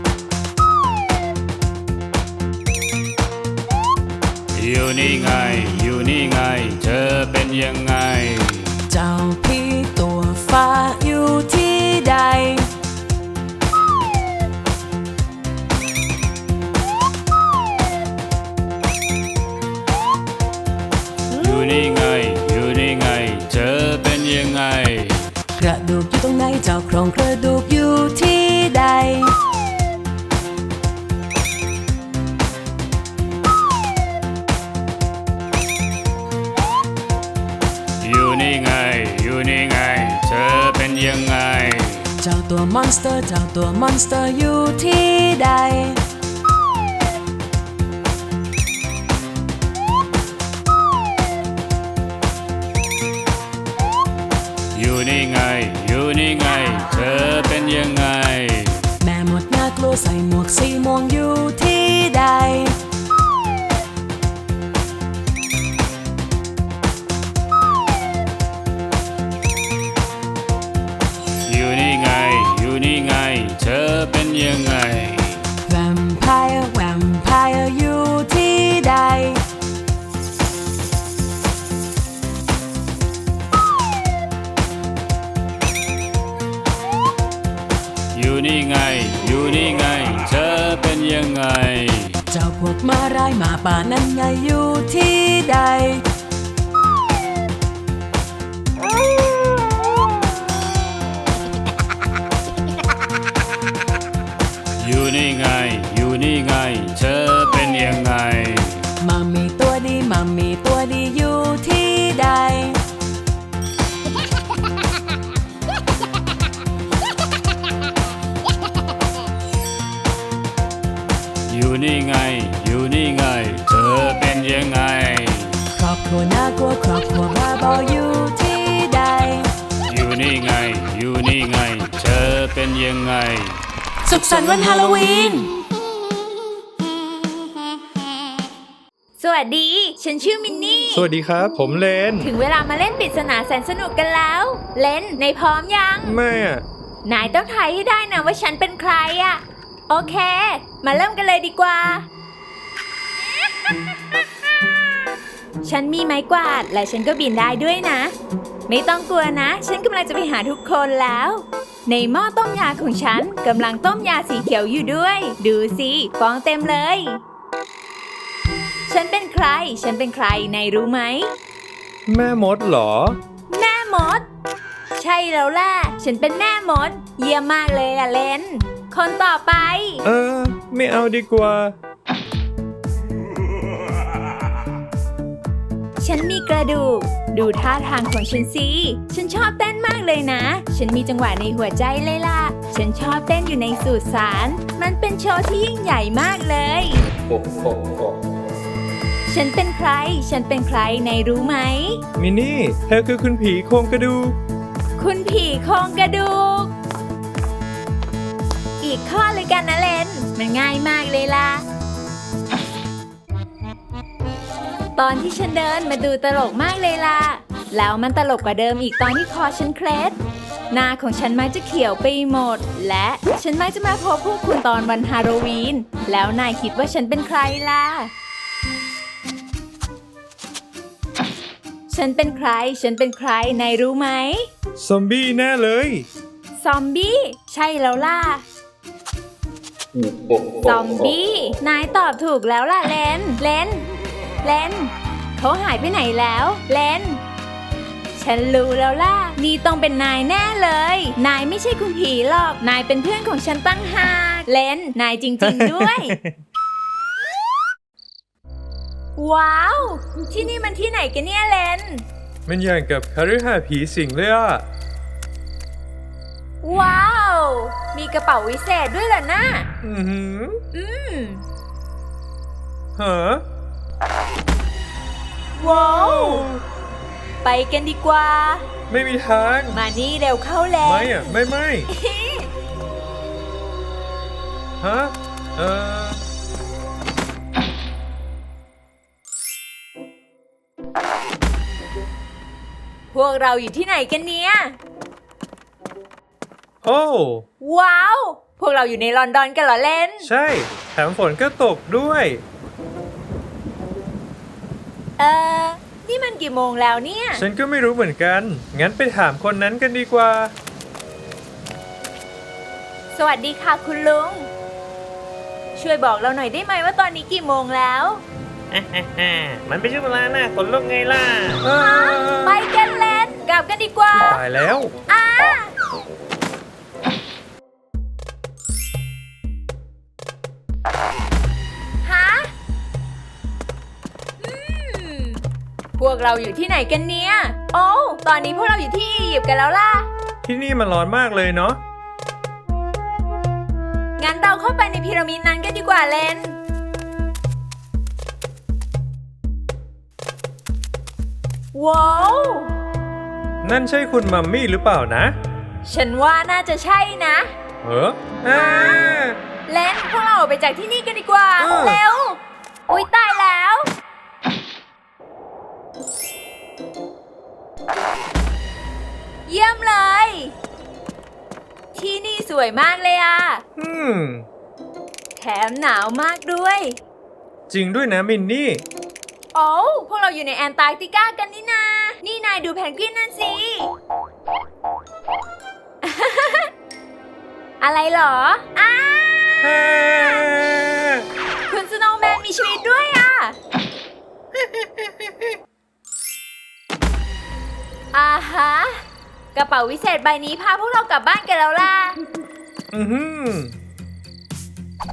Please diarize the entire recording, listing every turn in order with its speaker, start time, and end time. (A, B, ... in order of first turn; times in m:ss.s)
0:04.5-0:08.8 A
0:08.9-0:12.7 B
0:21.4-0:25.3 A
0:25.6-0:29.3 B
0:38.0-0:42.1 A
0:42.2-0:46.0 B
0:54.7-0:58.9 A
0:59.0-1:02.8 B
1:11.4-1:15.4 A
1:15.7-1:19.4 B
1:28.1-1:32.2 A
1:32.3-1:36.0 B
1:44.8-1:48.9 A
1:49.0-1:52.8 B
2:01.5-2:05.6 A
2:05.7-2:09.5 B
2:09.9-2:13.6 A
2:14.0-2:15.5 B
2:19.2-2:21.1 C
2:20.9-2:22.3 D
2:22.2-2:26.2 C
2:26.0-2:26.6 D
2:27.0-2:32.1 C
2:35.6-2:38.1 C
2:38.7-2:47.2 C
2:48.9-2:51.3 C
2:52.1-2:53.2 D
2:53.5-2:54.2 C
2:55.0-3:00.0 C
3:00.0-3:01.7 D
3:06.0-3:17.0 C
3:17.4-3:17.9 E
3:19.3-3:22.0 C
3:22.2-3:24.4 D
3:25.0-3:26.7 C
3:28.8-3:31.6 C
3:35.0-3:40.2 C
3:40.7-3:48.1 C
3:51.9-3:54.5 C
3:54.8-3:56.1 D
3:56.6-3:58.4 C
4:00.0-4:00.6 E
4:00.6-4:03.8 C
4:04.4-4:07.2 C
4:08.1-4:16.2 C
4:19.2-4:22.0 C
4:22.4-4:24.6 D
4:26.6-4:29.7 C
4:29.8-4:30.6 D
4:30.7-4:31.4 C
4:33.0-4:33.4 D
4:35.5-4:36.5 C
4:35.6-4:36.6 D
4:37.4-4:38.6 C
4:38.9-4:39.8 D
4:39.7-4:41.4 C
4:40.8-4:41.9 D
4:41.9-4:42.5 C
4:44.8-4:46.2 D
4:53.1-4:54.8 C
4:56.8-4:57.4 D
4:57.6-5:00.3 C
5:00.2-5:02.4 D
5:05.2-5:07.4 C
5:07.3-5:10.5 D
5:13.1-5:14.5 C
5:15.8-5:18.2 C
5:18.7-5:21.6 E
5:21.6-5:22.6 D
5:21.8-5:24.4 C
5:24.2-5:24.9 D
5:25.1-5:25.7 C
5:32.0-5:32.5 C
5:34.4-5:35.4 C
5:36.0-5:40.1 C
5:40.4-5:41.8 D
5:44.2-5:46.6 C
5:51.7-5:52.8 C
5:53.6-5:55.3 D
5:55.8-5:57.5 C
5:57.8-5:59.4 D
5:58.5-5:59.0 C
5:59.7-6:03.9 C
6:01.6-6:02.0 D
6:09.5-6:10.5 C
6:11.9-6:13.6 C
6:13.8-6:14.4 D
6:15.4-6:17.0 C
6:17.7-6:18.8 D
6:19.5-6:23.9 C
6:26.0-6:26.7 C
6:27.8-6:30.4 C
6:29.6-6:31.2 D
6:31.7-6:33.6 C
6:38.1-6:39.0 C
6:39.5-6:42.2 C
6:42.9-6:43.7 D